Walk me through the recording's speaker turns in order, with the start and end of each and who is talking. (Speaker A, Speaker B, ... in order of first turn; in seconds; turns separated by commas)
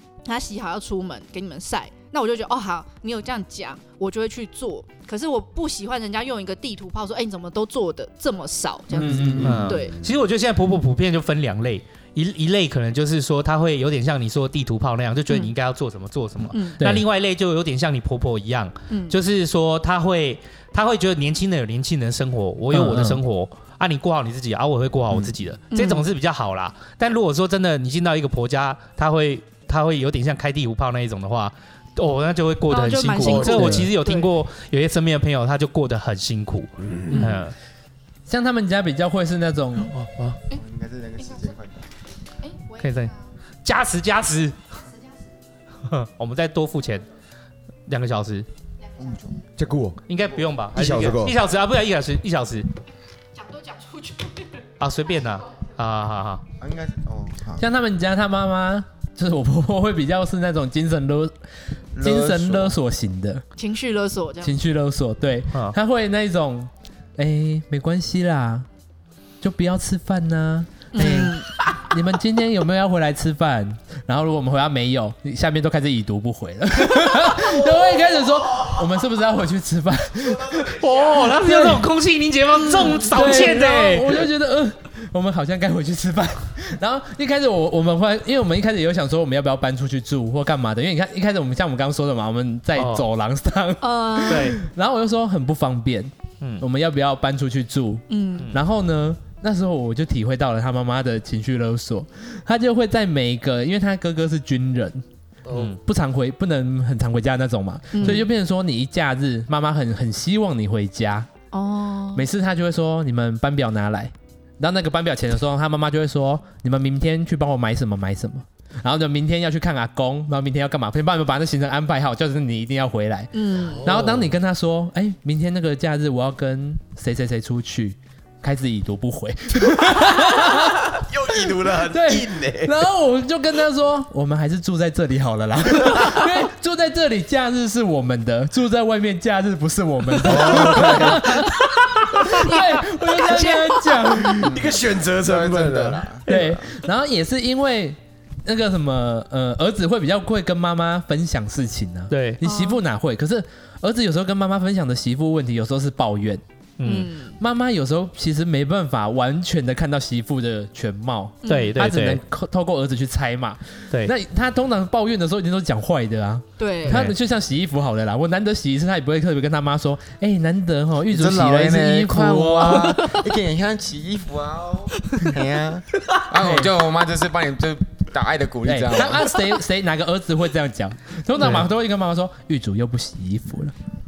Speaker A: 0.3-10.0, Speaker B: 8.9-9.7, Speaker C: 9.0-9.6, Speaker D: 9.4-10.0, Speaker E: 9.4-37.5, Speaker B: 16.8-17.1, Speaker A: 18.9-19.2, Speaker B: 22.7-23.2, Speaker A: 25.7-26.1, Speaker A: 32.7-34.3, Speaker D: 33.2-33.8, Speaker A: 37.1-37.4, Speaker B: 38.3-40.0, Speaker D: 40.0-40.4, Speaker C: 40.5-41.8, Speaker A: 42.4-43.2, Speaker E: 42.8-43.1, Speaker E: 43.6-44.7, Speaker E: 45.9-47.1, Speaker E: 47.9-48.5, Speaker A: 49.0-49.4, Speaker C: 49.0-49.4, Speaker D: 49.6-50.0, Speaker E: 50.1-52.7, Speaker D: 50.7-51.4, Speaker A: 53.4-54.5, Speaker E: 54.8-56.4, Speaker C: 56.6-57.6, Speaker B: 57.6-61.3, Speaker C: 61.9-62.8, Speaker B: 62.0-63.4, Speaker A: 63.6-64.6, Speaker B: 64.4-68.7, Speaker B: 69.4-80.8, Speaker A: 70.9-71.8, Speaker D: 78.5-78.8, Speaker D: 80.2-81.1, Speaker E: 80.8-84.3, Speaker B: 81.3-81.8, Speaker B: 82.8-105.0, Speaker E: 92.8-93.0, Speaker A: 93.8-94.6, Speaker E: 94.3-94.6, Speaker A: 98.1-98.5, Speaker D: 105.5-105.8, Speaker E: 105.5-105.8, Speaker B: 105.8-111.3, Speaker A: 107.9-108.3, Speaker A: 111.5-112.3, Speaker B: 112.2-131.0, Speaker A: 123.3-123.8, Speaker D: 123.7-124.3, Speaker D: 130.4-132.8, Speaker B: 131.9-141.6, Speaker D: 140.3-141.2, Speaker B: 142.1-144.5, Speaker A: 142.3-144.3, Speaker C: 144.4-146.6, Speaker D: 144.4-146.1, Speaker B: 146.3-156.4, Speaker E: 152.1-152.4, Speaker A: 152.4-152.8, Speaker E: 156.8-157.1, Speaker A: 156.8-157.4, Speaker B: 157.4-173.0, Speaker A: 161.4-161.8, Speaker E: 161.5-162.2, Speaker A: 166.6-167.1, Speaker E: 166.9-167.2, Speaker C: 171.1-179.4, Speaker A: 172.8-173.2, Speaker B: 176.4-176.7, Speaker B: 178.7-183.7, Speaker E: 181.4-181.7